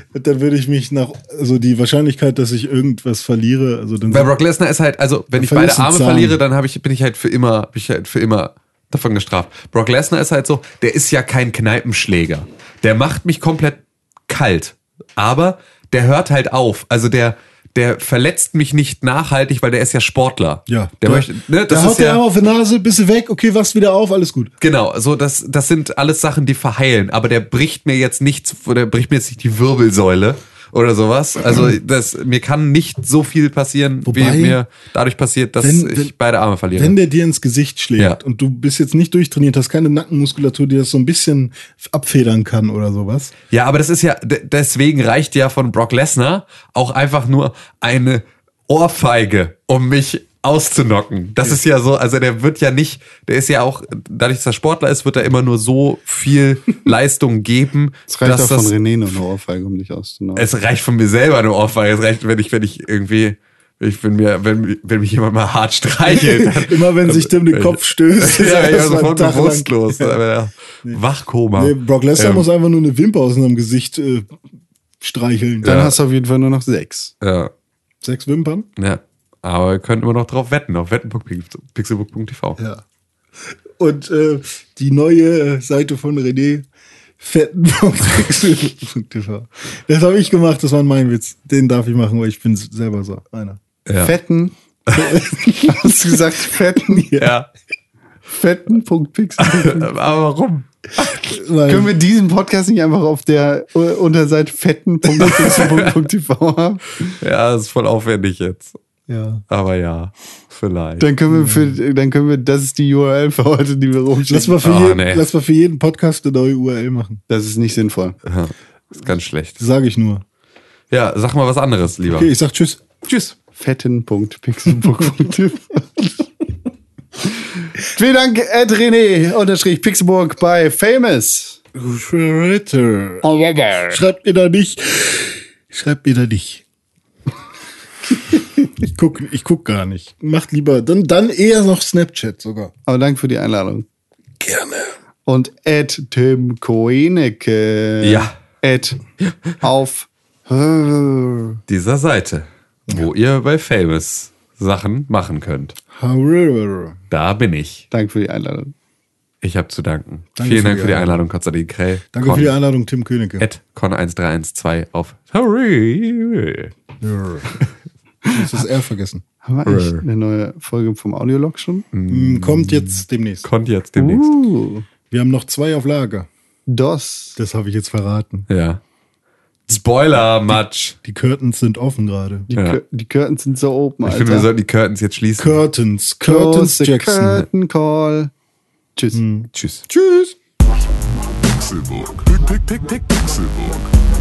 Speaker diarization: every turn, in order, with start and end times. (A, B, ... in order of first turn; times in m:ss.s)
0:00.1-0:04.3 A
0:04.1-0:22.2 B
0:05.4-0:06.4 A
0:20.7-0:24.5 A
0:24.6-0:37.0 B
0:34.0-0:34.6 A
0:35.6-0:36.1 A
0:36.8-0:43.3 A
0:43.5-0:58.7 B
0:58.1-1:00.5 C
1:00.4-1:12.5 B
1:06.1-1:10.2 A
1:11.6-1:14.3 A
1:15.0-1:15.8 A
1:15.6-1:17.1 C
1:15.6-1:16.0 B
1:17.2-1:17.5 B
1:18.0-1:18.7 A
1:18.8-1:22.6 B
1:22.6-1:22.8 A
1:23.4-1:26.7 A
1:27.2-1:33.6 A
1:33.9-1:34.2 B
1:34.0-1:37.2 C
1:35.0-1:36.0 A
1:36.8-1:37.3 A
1:37.2-1:37.5 B
1:38.3-1:39.9 C
1:39.4-1:41.3 B
1:41.2-1:42.0 A
1:41.7-1:47.2 C
1:45.2-1:45.9 B
1:47.2-1:48.8 B
1:49.1-1:49.4 A
1:49.5-1:51.1 B
1:51.0-1:54.6 C
1:51.3-1:51.8 A
1:54.3-1:57.2 A
1:54.6-1:55.3 B
1:57.3-1:58.2 C
1:58.2-1:59.6 B
1:59.6-2:00.2 A
2:00.9-2:02.3 B
2:02.1-2:02.8 A
2:03.0-2:03.4 B
2:03.4-2:06.2 C
2:07.2-2:11.6 C
2:11.8-2:13.3 A
2:13.2-2:14.0 C
2:13.9-2:16.6 A
2:18.4-2:22.7 A
2:22.9-2:23.9 C
2:24.4-2:24.9 A
2:25.3-2:29.0 C
2:28.0-2:28.3 B
2:29.6-2:31.6 C
2:31.7-2:35.8 B
2:35.9-2:37.0 A
2:37.1-2:37.9 B
2:37.9-2:38.7 C
2:39.4-2:42.6 B
2:40.4-2:41.2 A
2:42.1-2:43.4 A
2:43.4-2:46.7 B
2:47.0-2:47.5 A
2:48.3-2:49.2 A
2:49.4-2:51.9 C
2:49.6-2:50.0 B
2:51.9-2:54.3 B
2:52.1-2:53.5 A
2:54.0-2:54.9 C
2:55.1-2:56.3 A
2:56.7-2:57.4 C
2:57.4-2:58.5 A
2:58.5-2:58.8 B
2:59.7-3:01.0 B
3:01.0-3:02.5 A
3:02.5-3:04.5 C
3:02.5-3:02.8 B
3:04.0-3:05.6 B
3:05.4-3:07.5 A
3:06.2-3:08.3 C
3:09.0-3:09.2 C
3:09.1-3:09.5 A
3:09.5-3:09.9 B
3:09.9-3:10.2 D
3:11.2-3:14.0 D